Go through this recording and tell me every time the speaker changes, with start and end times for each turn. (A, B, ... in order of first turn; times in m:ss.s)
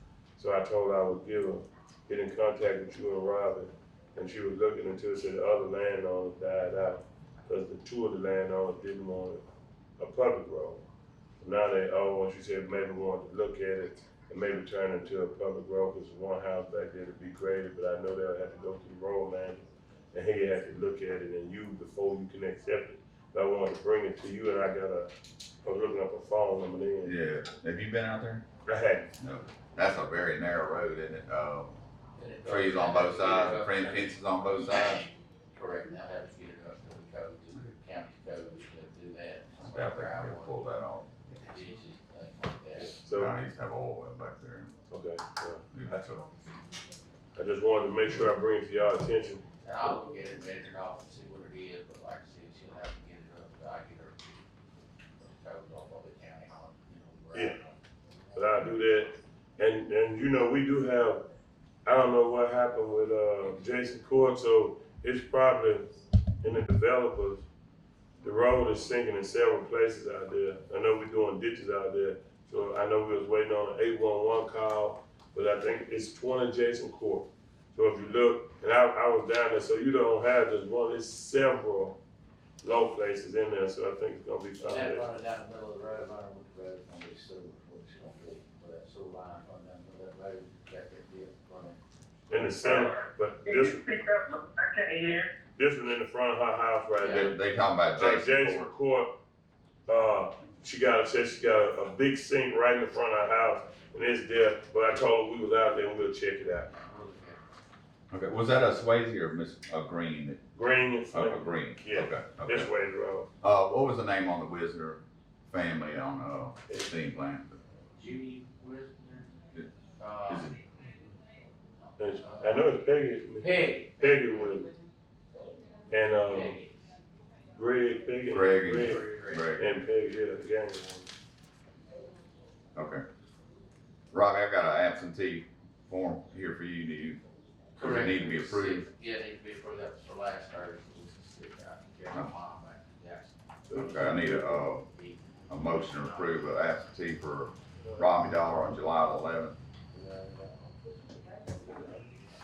0:00.4-0:09.4 A
0:10.0-0:10.8 A
0:11.4-0:25.1 A
0:25.6-0:27.2 A
0:27.0-0:28.4 B
0:28.7-0:29.1 A
0:29.2-0:31.8 B
0:32.2-0:34.2 C
0:32.4-0:35.1 B
0:35.5-0:40.7 C
0:39.6-0:41.1 B
0:41.4-0:43.0 C
0:42.8-0:43.4 A
0:43.0-0:44.7 B
0:44.9-0:45.6 A
0:45.7-0:46.3 B
0:47.4-0:49.4 A
0:49.6-0:54.4 C
0:55.2-0:57.8 C
0:57.3-0:57.6 A
0:58.3-1:01.3 A
1:01.8-1:05.9 A
1:06.4-1:07.5 A
1:08.2-1:22.0 A
1:22.6-1:25.1 A
1:24.6-1:31.8 C
1:32.3-1:33.8 A
1:32.6-1:35.3 D
1:35.6-1:37.4 A
1:37.0-1:37.3 C
1:37.1-1:38.7 B
1:38.0-1:39.1 A
1:39.9-1:46.7 A
1:46.7-1:47.4 C
1:48.1-1:50.4 B
1:50.5-1:53.3 A
1:51.1-1:52.7 B
1:53.4-1:57.6 B
1:58.0-1:59.3 C
2:00.0-2:00.6 C
2:00.3-2:00.6 B
2:01.8-2:02.6 C
2:02.0-2:04.7 A
2:03.4-2:04.6 C
2:05.9-2:06.6 A
2:06.1-2:06.8 C
2:07.6-2:11.1 A
2:08.3-2:09.7 B
2:08.7-2:09.7 C
2:12.8-2:13.0 B
2:14.1-2:17.2 B
2:17.8-2:18.9 B
2:17.8-2:23.9 C
2:23.7-2:24.6 A
2:23.7-2:24.9 B
2:24.8-2:26.5 C
2:25.5-2:29.6 B
2:29.9-2:30.7 A
2:31.3-2:32.2 A